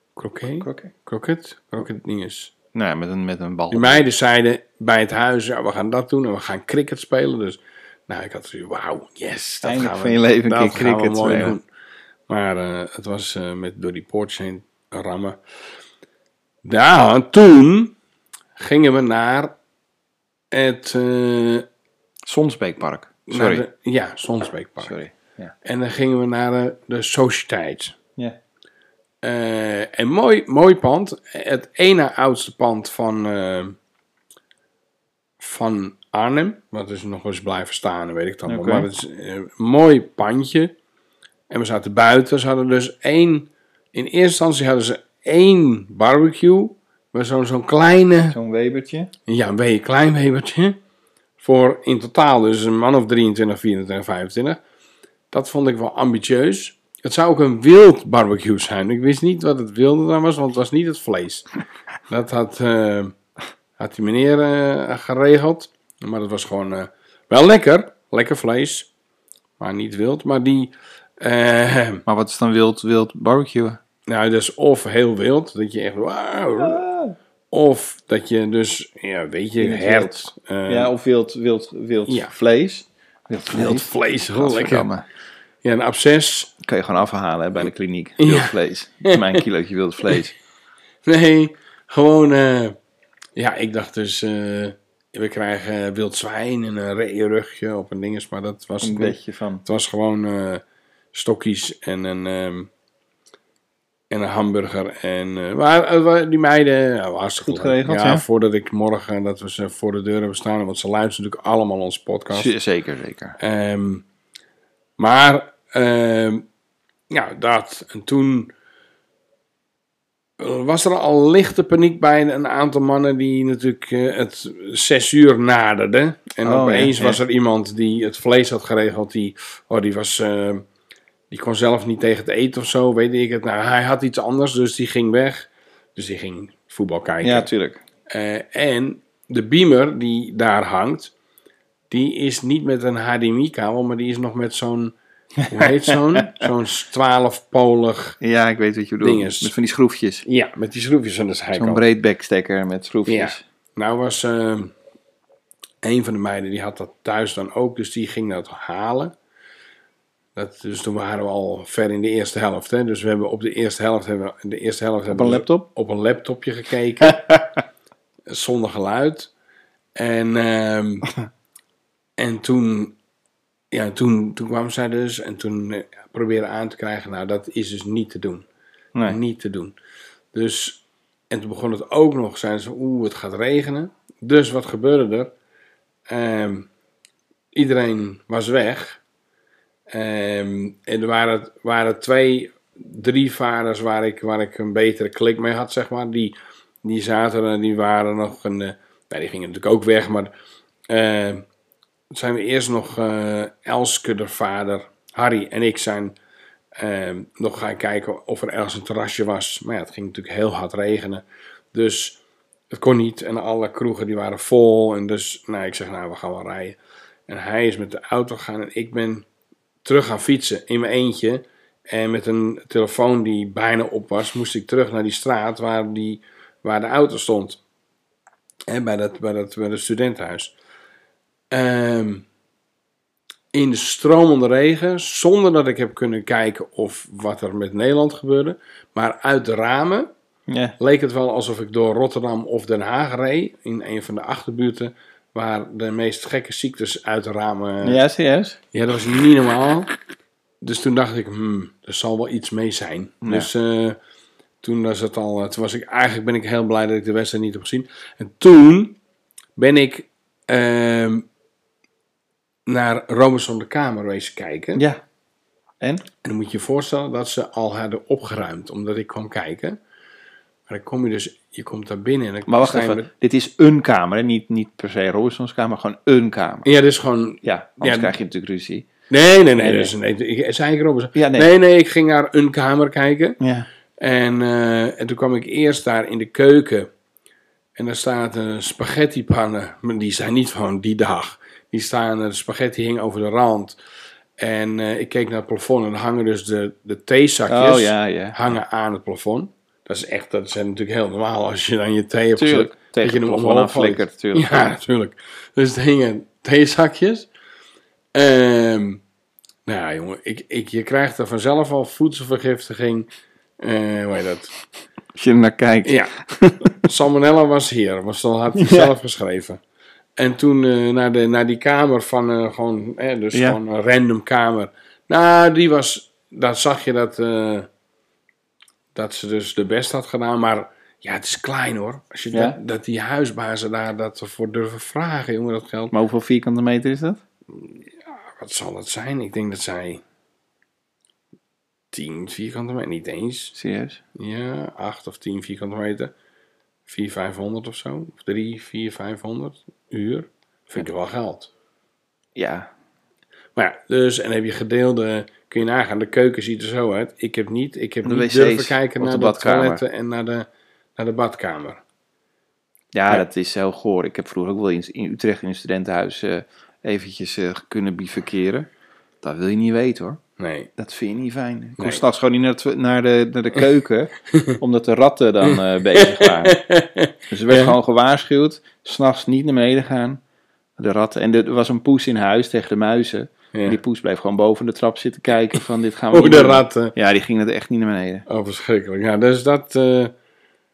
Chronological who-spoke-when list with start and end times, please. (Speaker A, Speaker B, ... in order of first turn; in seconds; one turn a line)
Speaker A: 0.2-2.5
Speaker B: 0.6-0.9
Speaker B: 2.7-4.0
Speaker A: 3.7-11.6
Speaker B: 9.6-11.6
Speaker A: 12.3-15.4
Speaker A: 16.6-17.9
Speaker A: 18.6-19.6
Speaker A: 20.5-21.6
Speaker B: 22.2-23.6
Speaker A: 23.3-25.0
Speaker B: 24.8-25.5
Speaker A: 25.6-28.0
Speaker A: 29.2-33.8
Speaker A: 35.4-40.7
Speaker B: 38.5-38.9
Speaker A: 41.5-48.4
Speaker B: 48.3-49.1
Speaker A: 49.3-50.8
Speaker A: 51.4-54.6
Speaker A: 55.3-61.5
Speaker A: 62.1-63.1
Speaker A: 63.8-68.9
Speaker A: 69.6-72.0
Speaker B: 72.0-73.8
Speaker A: 74.1-76.8
Speaker B: 76.6-77.2
Speaker A: 77.5-80.9
Speaker B: 79.6-85.0
Speaker A: 82.1-82.3
Speaker A: 83.5-84.9
Speaker A: 85.6-86.5
Speaker B: 86.6-90.3
Speaker A: 88.2-89.4
Speaker A: 91.0-92.8
Speaker A: 93.3-100.6
Speaker B: 98.8-99.6
Speaker A: 101.1-102.7
Speaker A: 104.1-112.5
Speaker B: 107.4-108.2
Speaker B: 112.3-113.4
Speaker A: 113.4-114.0
Speaker A: 115.0-116.5
Speaker A: 117.1-118.5
Speaker A: 120.4-130.7
Speaker B: 126.4-127.2
Speaker A: 131.3-137.5
Speaker B: 137.2-137.8
Speaker A: 138.1-141.1
Speaker A: 141.9-144.9
Speaker A: 145.5-148.2
Speaker B: 145.6-146.4
Speaker B: 148.2-150.2
Speaker A: 149.0-149.5
Speaker A: 150.2-151.8
Speaker B: 151.5-153.4
Speaker A: 153.1-154.7
Speaker A: 155.8-159.1
Speaker A: 160.3-167.3
Speaker B: 165.1-165.7
Speaker B: 167.1-167.4
Speaker A: 168.3-169.3
Speaker A: 169.9-171.1
Speaker A: 172.2-173.0
Speaker A: 173.7-178.5
Speaker A: 179.0-179.7
Speaker A: 180.3-185.3
Speaker A: 186.1-186.7
Speaker A: 187.5-189.0
Speaker A: 189.9-200.3
Speaker A: 200.9-201.4
Speaker A: 202.1-206.2
Speaker A: 206.8-219.2
Speaker A: 219.8-227.6
Speaker A: 228.7-230.5
Speaker A: 231.5-232.2
Speaker A: 233.5-240.1
Speaker B: 240.5-240.8
Speaker A: 240.8-248.0
Speaker B: 247.8-248.6
Speaker A: 248.7-249.9
Speaker A: 250.6-254.0
Speaker B: 253.2-253.5
Speaker A: 254.6-259.0
Speaker A: 259.6-261.3
Speaker A: 262.7-264.8
Speaker B: 264.8-265.0
Speaker A: 266.2-269.8
Speaker A: 270.7-273.1
Speaker B: 272.5-276.7
Speaker A: 276.6-278.1
Speaker B: 277.4-278.9
Speaker A: 279.1-283.4
Speaker B: 279.6-279.9
Speaker B: 281.1-281.5
Speaker B: 283.4-283.7
Speaker A: 284.0-286.9
Speaker A: 287.8-293.8
Speaker A: 294.4-307.3
Speaker B: 297.5-298.5
Speaker B: 302.4-304.5
Speaker A: 308.1-309.0
Speaker A: 309.6-313.1
Speaker A: 313.6-314.5
Speaker B: 315.1-316.7
Speaker A: 315.8-319.6
Speaker B: 318.6-318.9
Speaker A: 320.2-327.7
Speaker B: 323.3-323.6
Speaker A: 328.9-335.9
Speaker B: 332.3-332.6
Speaker B: 335.9-337.2
Speaker A: 337.5-340.0
Speaker A: 341.9-343.5
Speaker B: 343.5-344.0
Speaker A: 344.1-346.1
Speaker A: 346.9-351.5
Speaker B: 352.3-352.7
Speaker A: 353.6-361.8
Speaker B: 358.0-359.8
Speaker B: 362.9-368.7
Speaker B: 369.2-370.2
Speaker A: 370.4-370.7
Speaker B: 370.8-376.6
Speaker A: 374.3-374.6
Speaker A: 375.9-377.7
Speaker B: 377.3-380.2
Speaker B: 380.8-388.2
Speaker A: 383.5-383.8
Speaker A: 386.1-386.9
Speaker A: 388.3-390.1